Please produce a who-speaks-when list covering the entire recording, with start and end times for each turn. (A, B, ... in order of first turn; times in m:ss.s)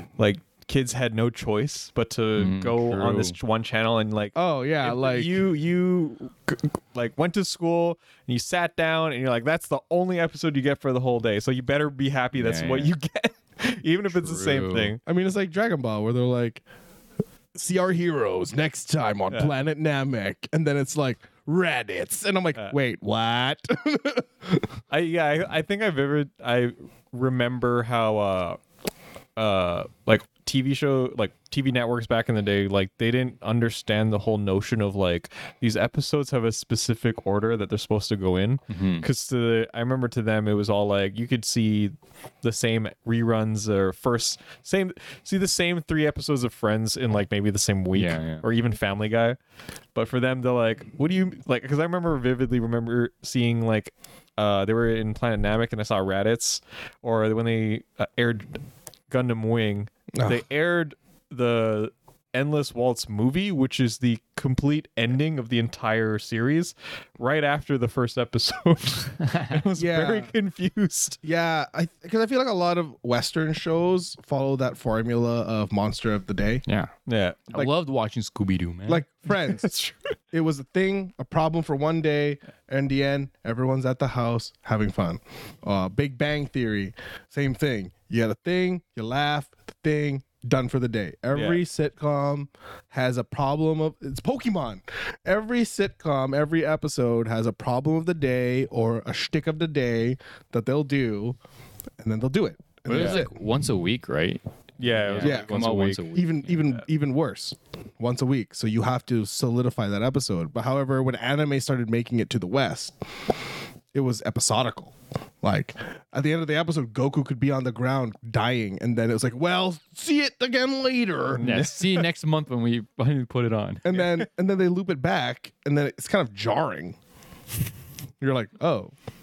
0:00.2-0:15.0 A
0:02.4-0:03.4 B
0:04.4-0:05.4 C
0:12.4-0:12.9 B
0:14.1-0:15.0 B
0:15.1-0:16.6 C
0:17.6-0:24.7 C
0:24.9-0:28.6 A
0:29.4-0:49.4 A
0:38.7-0:39.1 B
0:48.0-0:48.5 B
0:50.0-1:11.2 A
1:00.1-1:00.4 C
1:09.8-1:10.3 C
1:11.2-1:16.6 C
1:16.7-1:16.9 B
1:17.1-1:17.4 A
1:17.5-1:19.0 B
1:18.9-1:19.7 C
1:19.3-1:20.0 A
1:20.3-1:41.4 C
1:31.3-1:31.6 A
1:42.0-1:43.3 C
1:42.9-1:46.6 B
1:42.9-1:43.2 A
1:44.8-1:46.0 A
1:45.2-1:52.9 C
1:53.9-2:01.4 C
2:01.4-2:02.1 A
2:01.4-2:03.9 B
2:03.8-2:07.0 C
2:03.9-2:04.2 A
2:08.2-2:08.9 C